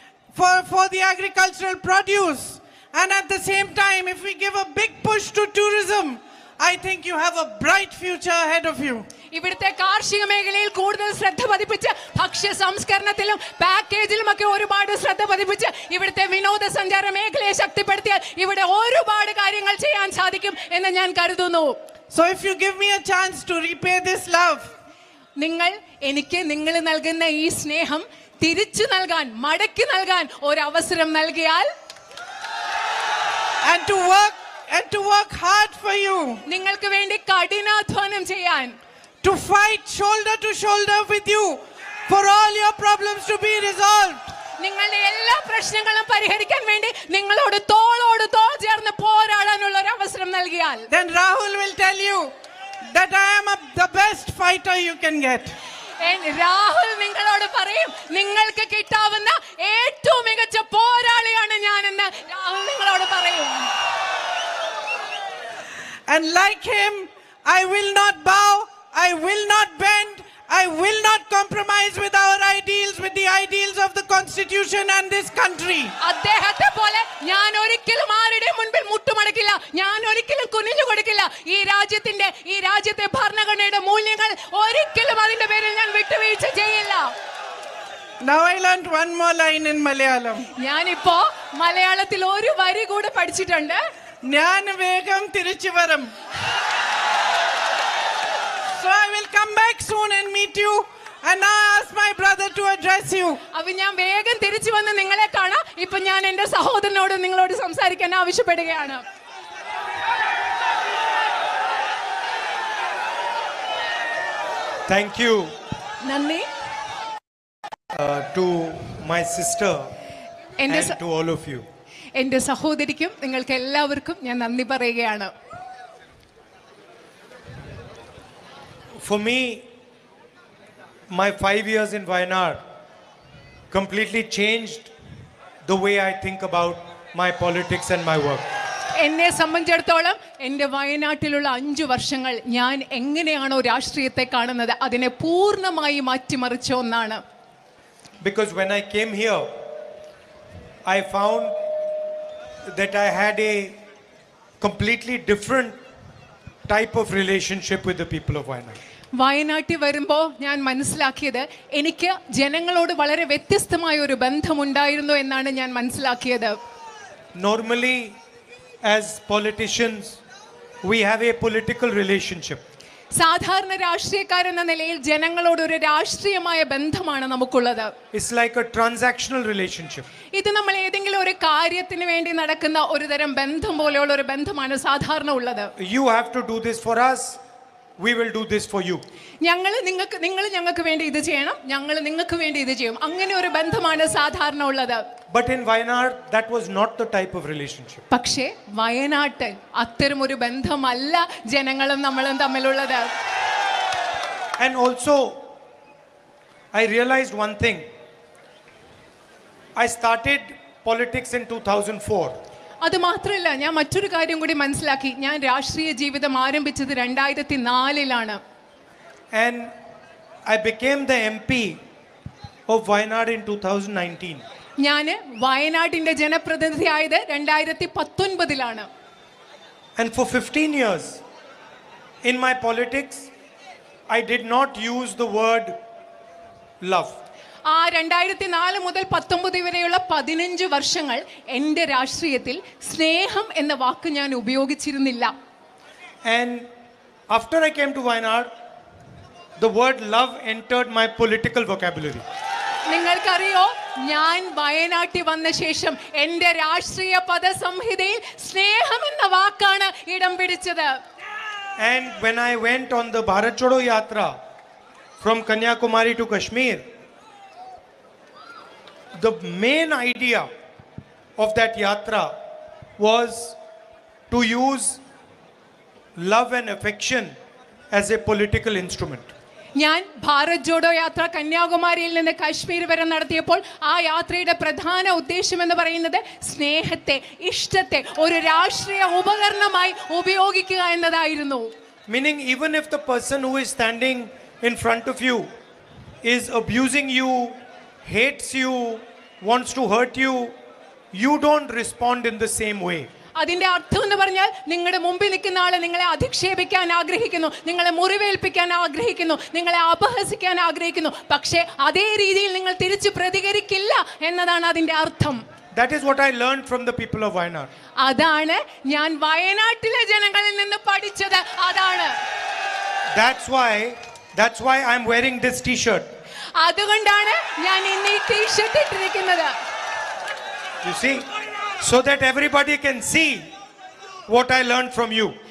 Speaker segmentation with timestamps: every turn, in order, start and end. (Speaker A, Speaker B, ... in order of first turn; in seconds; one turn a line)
Speaker A: 0.3-9.1
Speaker B: 9.3-21.8
Speaker A: 22.1-24.7
Speaker B: 25.4-31.7
Speaker A: 33.6-36.4
Speaker B: 36.5-38.8
Speaker A: 39.2-44.3
Speaker B: 44.6-50.9
Speaker A: 50.9-52.3
Speaker A: 52.9-55.6
Speaker B: 56.0-63.7
Speaker A: 66.1-76.0
Speaker B: 76.0-87.1
Speaker A: 88.2-90.5
Speaker B: 90.6-93.8
Speaker A: 94.2-96.1
Speaker A: 98.7-103.4
Speaker B: 103.5-109.0
Speaker C: 114.9-115.5
Speaker B: 116.0-116.5
Speaker C: 117.9-119.9
Speaker B: 120.6-121.0
Speaker C: 120.7-121.7
Speaker B: 122.2-125.3
Speaker C: 129.0-129.7
Speaker C: 131.1-132.6
Speaker C: 133.7-134.9
Speaker C: 135.7-138.5
Speaker B: 139.0-147.2
Speaker C: 148.2-149.6
Speaker C: 150.8-151.6
Speaker C: 152.7-153.8
Speaker C: 154.6-155.8
Speaker C: 156.7-158.8
Speaker B: 159.2-166.6
Speaker C: 167.3-168.2
Speaker C: 168.8-170.2
Speaker C: 170.8-172.6
Speaker B: 173.2-177.9
Speaker C: 178.1-180.1
Speaker B: 180.3-185.7
Speaker C: 185.8-187.4
Speaker C: 188.0-189.0
Speaker B: 189.4-195.0
Speaker C: 195.3-198.0
Speaker B: 198.1-203.1
Speaker C: 204.6-205.4
Speaker C: 206.7-207.9
Speaker C: 209.8-212.4
Speaker B: 212.8-218.4
Speaker C: 219.3-219.7
Speaker C: 220.5-221.8
Speaker C: 222.7-224.4
Speaker B: 224.8-228.9
Speaker C: 230.0-231.2
Speaker C: 232.2-233.3
Speaker C: 234.1-235.8
Speaker C: 236.8-237.2
Speaker B: 237.7-245.3
Speaker C: 246.2-246.7
Speaker C: 247.3-248.5
Speaker C: 249.6-252.2
Speaker B: 252.9-261.0
Speaker C: 261.8-264.3
Speaker C: 265.2-266.9
Speaker C: 269.2-270.5
Speaker C: 271.4-272.3
Speaker C: 273.0-273.6
Speaker C: 274.3-275.0
Speaker C: 276.2-277.3
Speaker C: 277.9-279.3
Speaker B: 279.8-291.7
Speaker C: 292.1-295.5
Speaker C: 296.2-300.6
Speaker C: 301.1-303.1
Speaker B: 303.4-315.4
Speaker C: 315.7-317.7
Speaker B: 318.0-322.1
Speaker C: 323.1-326.1
Speaker B: 326.6-329.5
Speaker C: 330.8-331.2
Speaker C: 331.8-333.5
Speaker C: 334.3-335.3